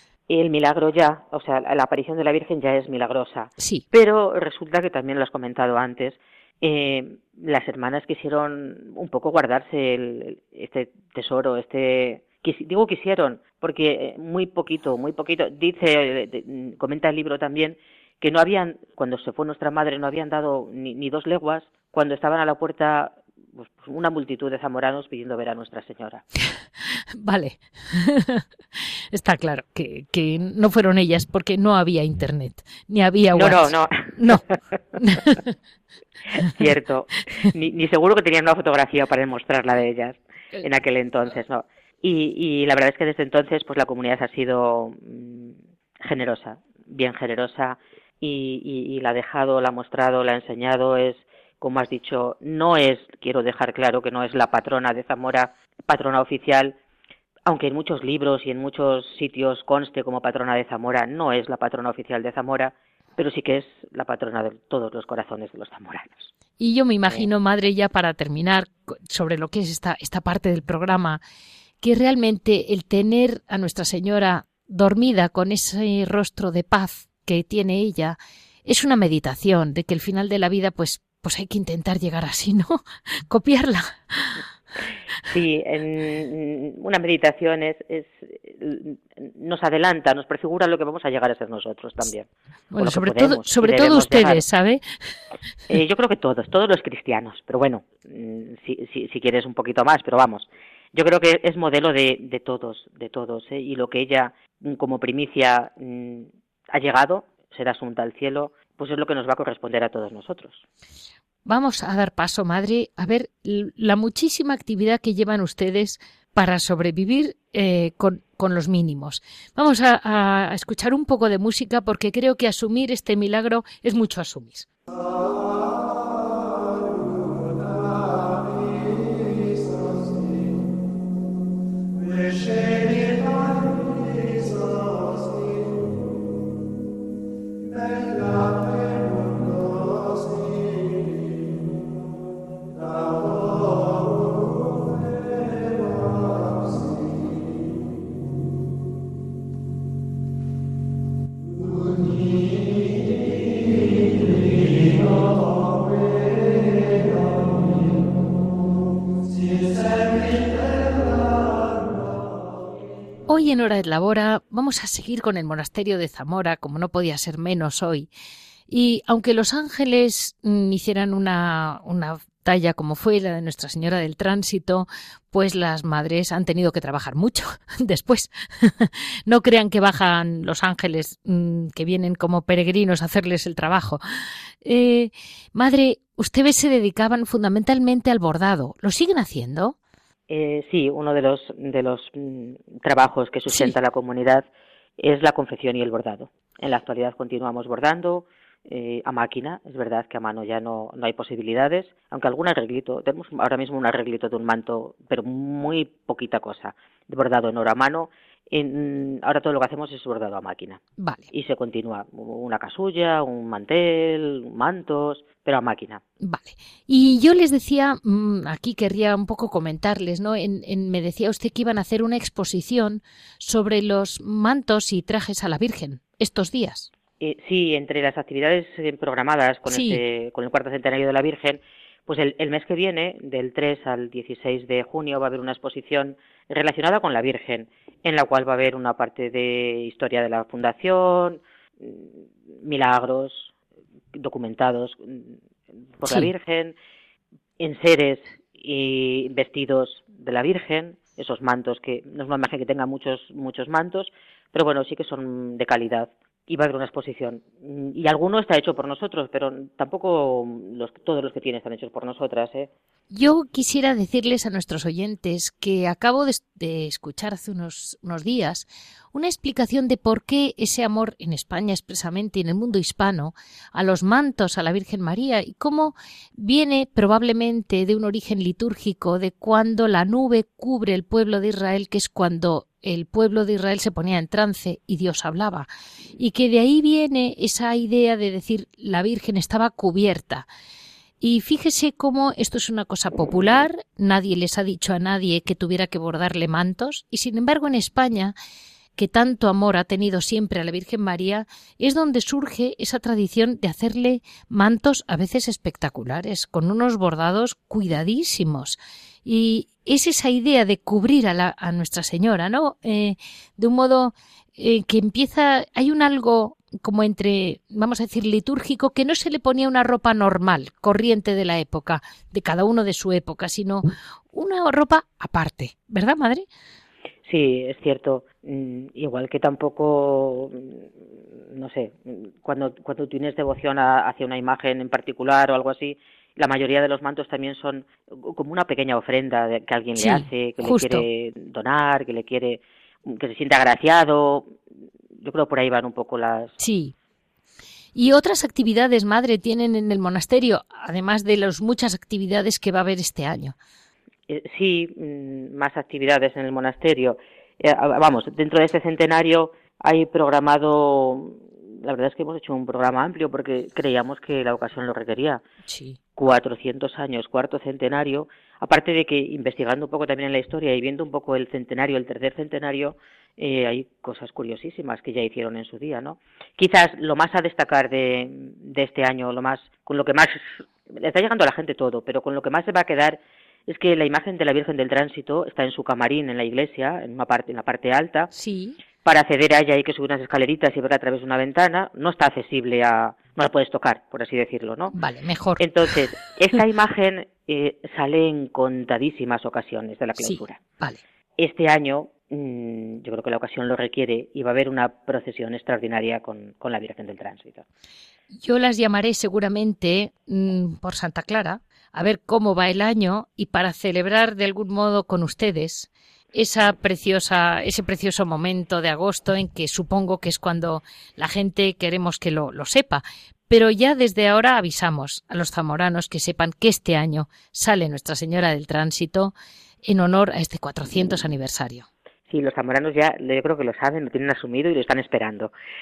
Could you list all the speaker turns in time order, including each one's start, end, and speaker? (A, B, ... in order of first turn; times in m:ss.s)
0:00.3-0:26.2 A
0:03.6-0:03.8 B
0:26.4-0:35.5 B
0:33.4-0:34.6 A
0:36.3-0:56.8 A
0:57.4-1:06.3 A
1:06.6-1:11.2 B
1:11.8-1:24.4 B
1:25.3-1:34.4 A
1:32.7-1:34.8 B
1:35.7-1:50.6 A
1:51.4-2:04.7 B
2:43.3-2:48.1 B
2:48.7-3:04.0 B
3:04.6-3:09.8 B
3:10.3-3:14.5 A
3:13.5-3:13.8 B
3:15.0-3:36.0 A
3:31.0-3:31.3 B
3:36.2-3:46.9 B
3:47.2-4:03.5 A
3:49.7-3:50.0 B
4:04.1-4:05.4 A
4:06.0-4:06.8 A
4:06.0-4:06.3 B
4:07.6-4:22.7 A
4:23.1-4:50.5 B
4:51.2-4:58.3 B
4:59.0-5:26.4 B
5:27.3-5:44.6 A
5:40.0-5:41.0 B
5:45.2-5:46.6 A
5:46.6-5:46.9 B
5:48.0-5:53.6 B
5:54.3-6:05.4 A
6:05.7-6:06.0 B
6:06.2-6:28.3 A
6:28.3-6:28.8 B
6:29.0-6:34.9 A
6:34.9-6:35.6 B
6:35.6-6:40.6 A
6:40.2-6:41.0 B
6:41.4-6:47.7 A
6:48.4-7:11.9 B
7:12.3-7:15.5 A